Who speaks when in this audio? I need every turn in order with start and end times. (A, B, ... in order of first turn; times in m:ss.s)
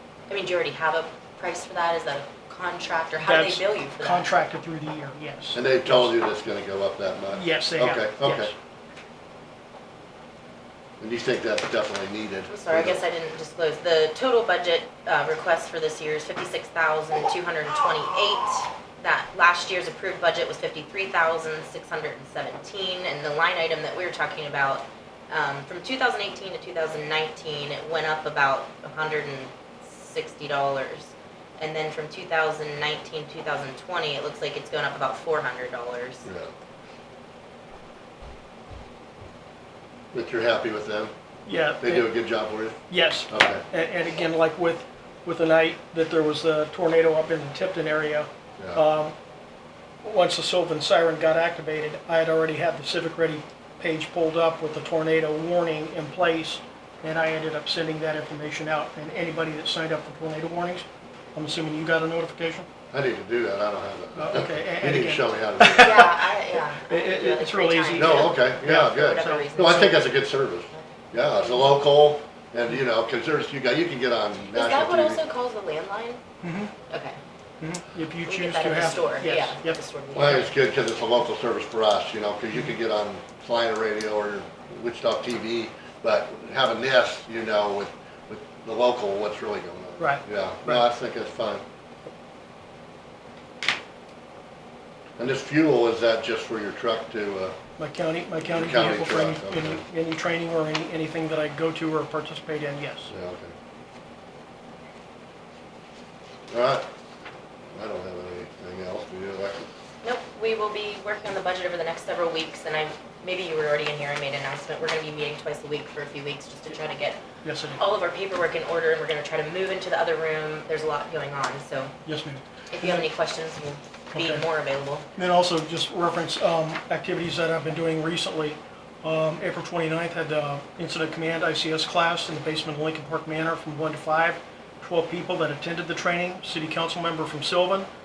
0:00.3-0:04.3 A
0:03.2-0:06.1 B
0:05.5-0:08.5 C
0:07.3-0:08.5 B
0:11.0-0:13.0 C
0:12.5-0:36.2 A
0:36.2-0:36.5 C
0:40.1-0:41.1 C
0:41.4-0:42.1 B
0:41.8-0:43.6 C
0:42.9-0:49.1 B
0:50.0-1:02.7 B
1:02.9-1:06.1 C
1:04.2-1:06.3 B
1:05.8-1:10.1 A
1:06.8-1:09.5 B
1:07.9-1:15.2 C
1:10.7-1:11.8 A
1:14.5-1:16.2 A
1:16.4-1:16.7 B
1:16.9-1:17.2 A
1:17.6-1:19.8 B
1:18.2-1:20.5 A
1:20.1-1:31.6 C
1:30.0-1:30.8 B
1:35.2-1:37.5 C
1:37.8-1:43.1 B
1:38.4-1:39.8 C
1:43.1-1:43.5 C
1:46.5-1:46.8 C
1:47.7-1:49.7 C
1:50.0-1:57.2 A
1:57.4-1:57.8 B
1:57.8-2:01.9 A
2:02.0-2:03.0 B
2:02.7-2:05.1 A
2:04.1-2:04.4 B
2:05.2-2:17.9 B